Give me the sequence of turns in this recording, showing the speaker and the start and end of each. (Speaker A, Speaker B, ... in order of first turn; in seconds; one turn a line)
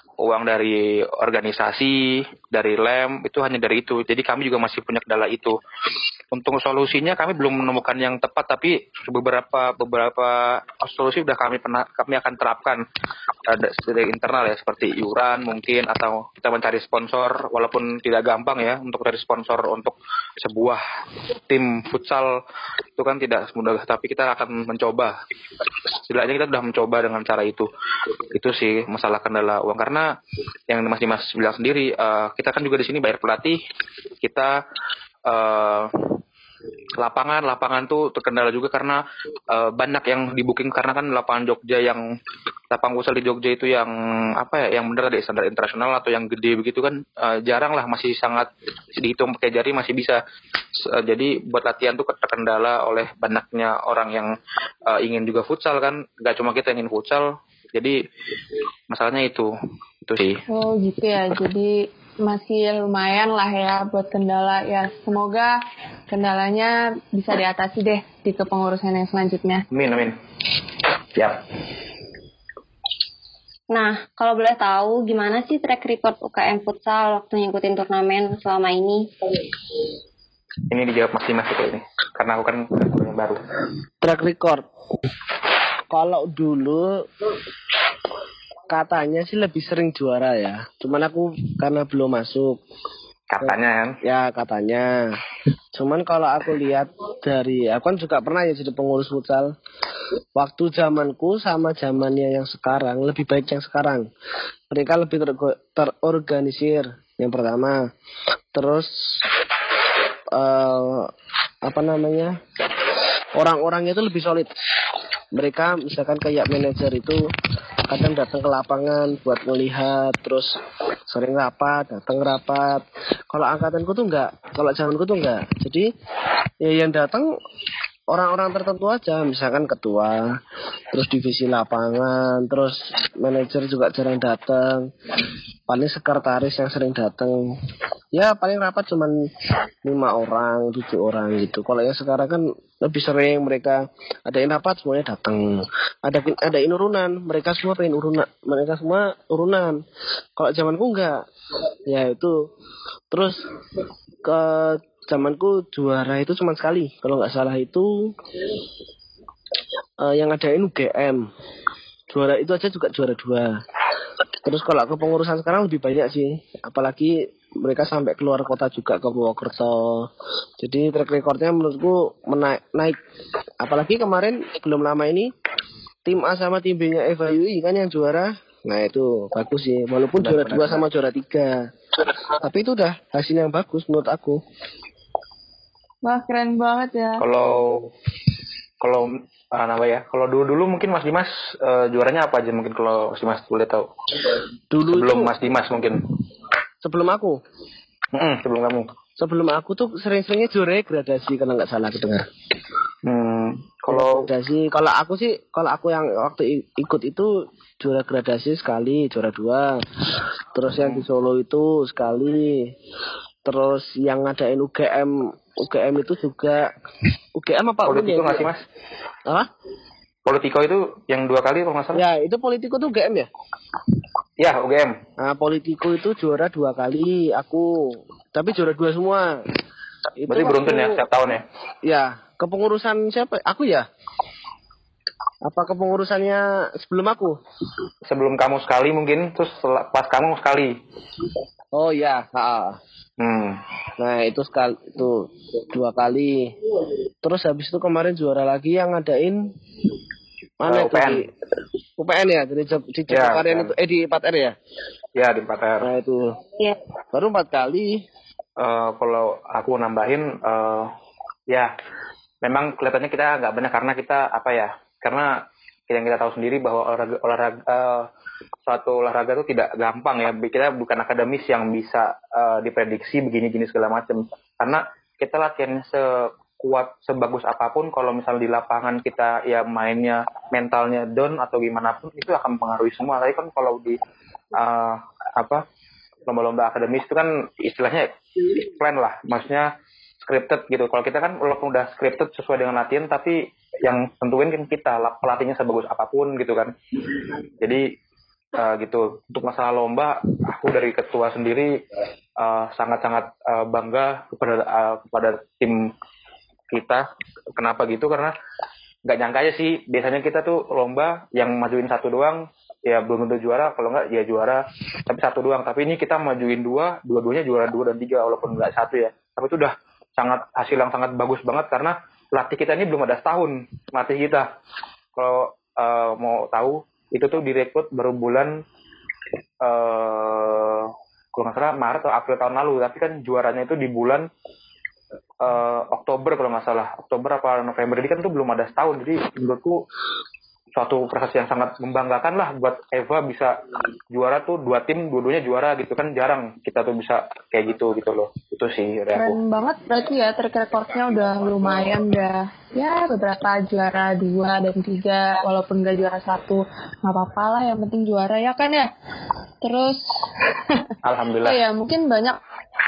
Speaker A: 0.2-5.6
Speaker A: 6.3-12.8
Speaker A: 13.5-20.8
Speaker A: 21.5-22.4
Speaker A: 23.0-25.1
Speaker A: 26.1-27.7
Speaker A: 28.3-30.1
Speaker A: 30.7-33.6
Speaker A: 34.2-34.6
Speaker A: 35.2-36.1
Speaker A: 37.0-42.1
Speaker A: 42.7-50.2
Speaker A: 50.8-54.3
Speaker A: 54.9-58.0
Speaker A: 58.9-59.5
Speaker A: 60.0-60.4
Speaker B: 60.5-65.6
Speaker B: 66.1-69.6
Speaker A: 69.7-70.2
Speaker C: 73.7-79.1
Speaker A: 80.7-83.4
Speaker D: 84.0-84.7
Speaker D: 85.9-87.1
Speaker D: 88.7-92.6
Speaker A: 93.3-94.0
Speaker D: 93.4-95.2
Speaker D: 95.7-99.5
Speaker D: 100.3-104.1
Speaker D: 104.7-107.8
Speaker D: 108.5-109.3
Speaker D: 110.3-111.1
Speaker D: 111.6-112.4
Speaker D: 113.3-114.5
Speaker D: 115.3-117.3
Speaker D: 117.9-120.6
Speaker D: 121.1-125.9
Speaker D: 126.6-127.3
Speaker D: 128.1-130.4
Speaker D: 130.9-134.9
Speaker D: 135.7-137.4
Speaker D: 138.1-139.2
Speaker D: 139.8-149.8
Speaker D: 150.4-151.2
Speaker D: 151.9-152.3
Speaker D: 153.1-153.4
Speaker D: 154.2-158.1
Speaker D: 160.0-161.2
Speaker D: 162.1-163.6
Speaker D: 164.4-173.0
Speaker D: 173.6-175.3
Speaker D: 176.1-181.7
Speaker A: 180.2-180.8
Speaker D: 182.3-184.4
Speaker B: 186.0-187.2
Speaker A: 187.2-187.9
Speaker A: 188.8-193.9
Speaker D: 194.7-195.3
Speaker A: 194.9-196.0
Speaker D: 196.8-197.4
Speaker A: 198.1-198.9
Speaker D: 199.2-202.3
Speaker A: 203.0-204.3
Speaker D: 203.9-209.8
Speaker D: 210.6-212.7
Speaker A: 210.7-211.1
Speaker D: 213.4-216.7
Speaker D: 217.4-218.5
Speaker A: 217.9-218.6
Speaker A: 220.2-222.0
Speaker D: 221.9-223.3
Speaker A: 224.4-225.0
Speaker D: 225.2-229.4
Speaker D: 230.2-231.0
Speaker A: 230.3-231.4
Speaker D: 231.8-233.9
Speaker D: 235.4-237.4
Speaker A: 238.1-240.7
Speaker D: 241.7-242.8
Speaker A: 243.2-243.6
Speaker D: 244.0-246.5
Speaker D: 247.2-249.5
Speaker D: 250.6-251.3
Speaker A: 250.7-251.2
Speaker D: 252.0-254.6
Speaker A: 253.1-253.7
Speaker A: 255.2-255.9
Speaker D: 255.8-256.4
Speaker D: 257.1-258.0
Speaker A: 258.6-260.9
Speaker A: 262.4-265.3
Speaker A: 265.9-268.1
Speaker A: 268.6-284.0
Speaker A: 284.5-285.6
Speaker A: 286.3-288.1
Speaker A: 288.8-289.7
Speaker A: 290.2-296.8
Speaker A: 297.6-297.9
Speaker A: 298.5-301.7
Speaker A: 302.4-305.9
Speaker A: 306.7-308.3
Speaker A: 309.1-324.5
Speaker A: 325.1-328.6
Speaker A: 329.6-334.3
Speaker A: 335.4-339.8
Speaker A: 340.8-343.6
Speaker A: 344.1-349.4
Speaker B: 349.1-358.9
Speaker B: 359.6-360.0
Speaker A: 361.0-361.6
Speaker B: 361.4-362.4